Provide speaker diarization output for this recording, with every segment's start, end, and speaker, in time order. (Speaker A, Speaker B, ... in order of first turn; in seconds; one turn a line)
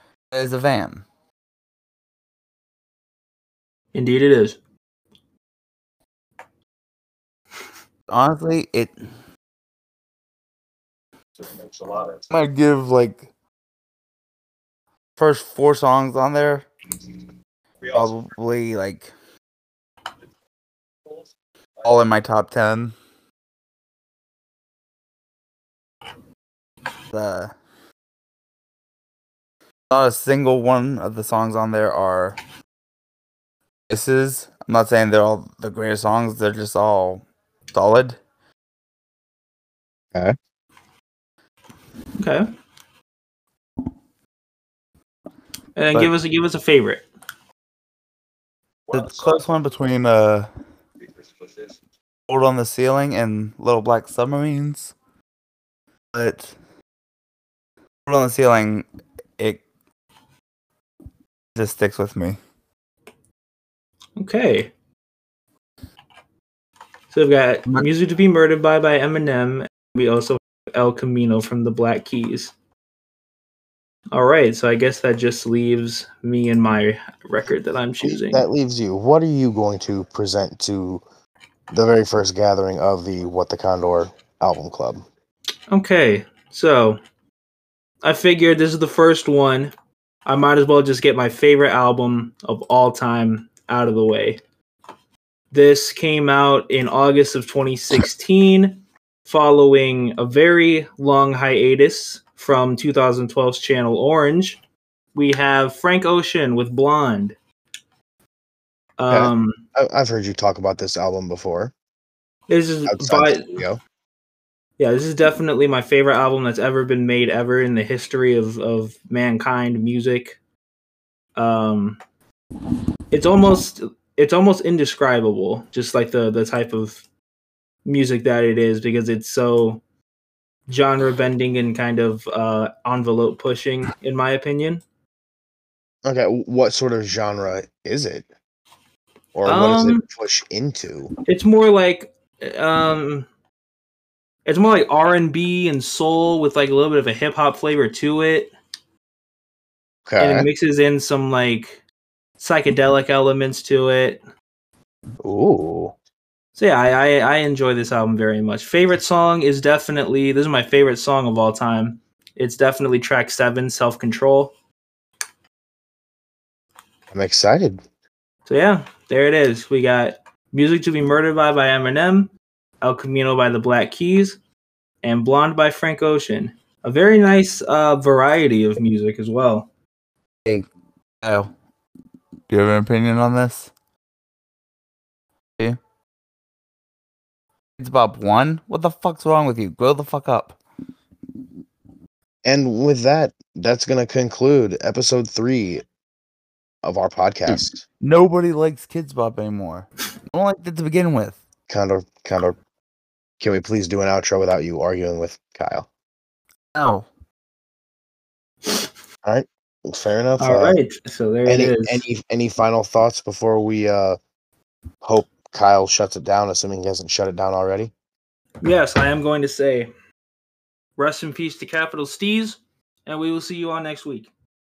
Speaker A: 0.3-1.1
Speaker B: 3.9-4.6
Speaker A: 8.1-8.9
Speaker A: 12.0-13.3
Speaker A: 15.2-16.7
Speaker A: 17.8-19.1
Speaker A: 21.8-22.9
Speaker A: 27.1-27.5
Speaker A: 29.9-32.4
Speaker A: 33.9-38.2
Speaker B: 42.2-42.5
Speaker B: 45.8-47.0
Speaker A: 48.9-50.5
Speaker A: 52.3-54.9
Speaker A: 56.1-56.5
Speaker A: 58.0-58.9
Speaker A: 59.4-59.6
Speaker A: 61.5-62.4
Speaker B: 64.2-64.7
Speaker B: 67.1-72.5
Speaker B: 74.1-78.4
Speaker C: 78.0-81.0
Speaker C: 81.7-85.0
Speaker B: 85.7-87.0
Speaker B: 88.0-89.7
Speaker B: 90.2-94.4
Speaker B: 95.5-104.6
Speaker B: 105.1-107.3
Speaker B: 109.0-109.6
Speaker C: 109.1-111.7
Speaker B: 112.5-113.6
Speaker C: 112.9-113.8
Speaker B: 114.8-120.4
Speaker B: 121.3-122.0
Speaker B: 123.1-127.0
Speaker B: 127.8-129.8
Speaker B: 130.7-134.8
Speaker C: 136.0-138.3
Speaker C: 139.3-141.1
Speaker B: 139.4-140.0
Speaker B: 141.2-143.3
Speaker B: 144.4-148.5
Speaker C: 150.1-150.5
Speaker B: 150.2-151.8
Speaker B: 152.4-154.2
Speaker C: 155.2-155.9
Speaker B: 156.6-164.5
Speaker C: 167.1-167.8
Speaker B: 168.5-172.3
Speaker B: 172.8-174.4
Speaker B: 175.0-179.7
Speaker A: 181.2-181.5
Speaker A: 182.5-183.7
Speaker A: 187.8-190.6
Speaker C: 192.4-195.8
Speaker C: 196.8-197.8
Speaker A: 197.5-201.4
Speaker C: 201.7-202.6
Speaker C: 203.4-205.9
Speaker A: 206.7-207.1
Speaker C: 209.2-210.8
Speaker B: 210.4-212.0
Speaker C: 211.4-214.2
Speaker C: 215.0-217.9
Speaker B: 218.6-219.9
Speaker B: 221.0-224.3